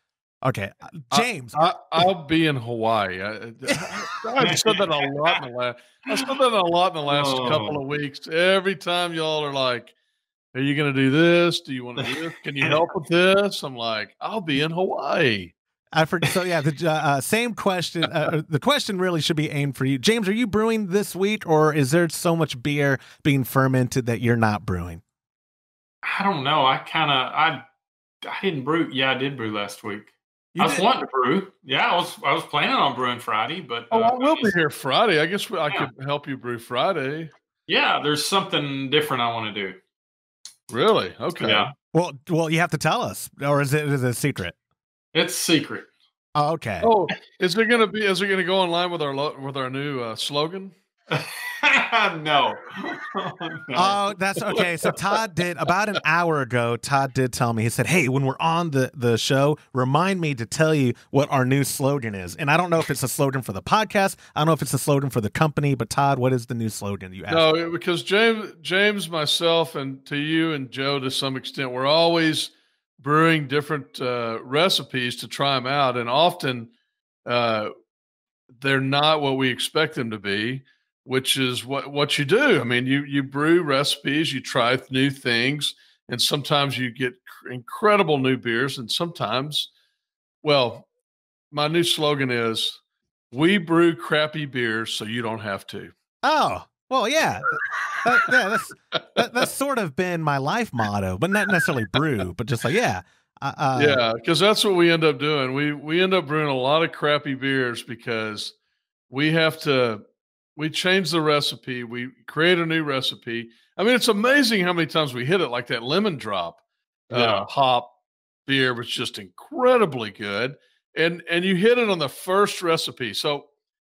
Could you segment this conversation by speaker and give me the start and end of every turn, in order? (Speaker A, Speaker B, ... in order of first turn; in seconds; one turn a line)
Speaker A: 0.4-1.6
Speaker B: 1.1-9.9
Speaker A: 3.7-4.1
Speaker C: 4.4-5.3
Speaker C: 7.1-7.8
Speaker B: 10.5-15.5
Speaker A: 15.9-25.0
Speaker C: 26.0-27.6
Speaker C: 28.2-34.5
Speaker A: 30.5-30.8
Speaker B: 33.9-37.3
Speaker C: 37.7-39.8
Speaker B: 40.7-41.7
Speaker C: 41.4-41.7
Speaker A: 41.9-44.5
Speaker C: 45.1-45.9
Speaker A: 46.3-46.9
Speaker B: 46.8-50.7
Speaker C: 51.1-55.0
Speaker A: 53.7-67.5
Speaker B: 67.3-76.7
Speaker B: 77.2-77.7
Speaker B: 78.6-89.7
Speaker B: 90.4-90.9
Speaker B: 91.5-92.8
Speaker B: 93.3-95.9
Speaker A: 96.2-104.0
Speaker B: 103.7-108.5
Speaker B: 109.1-110.0
Speaker B: 110.5-117.9
Speaker C: 117.1-117.5
Speaker B: 118.5-123.5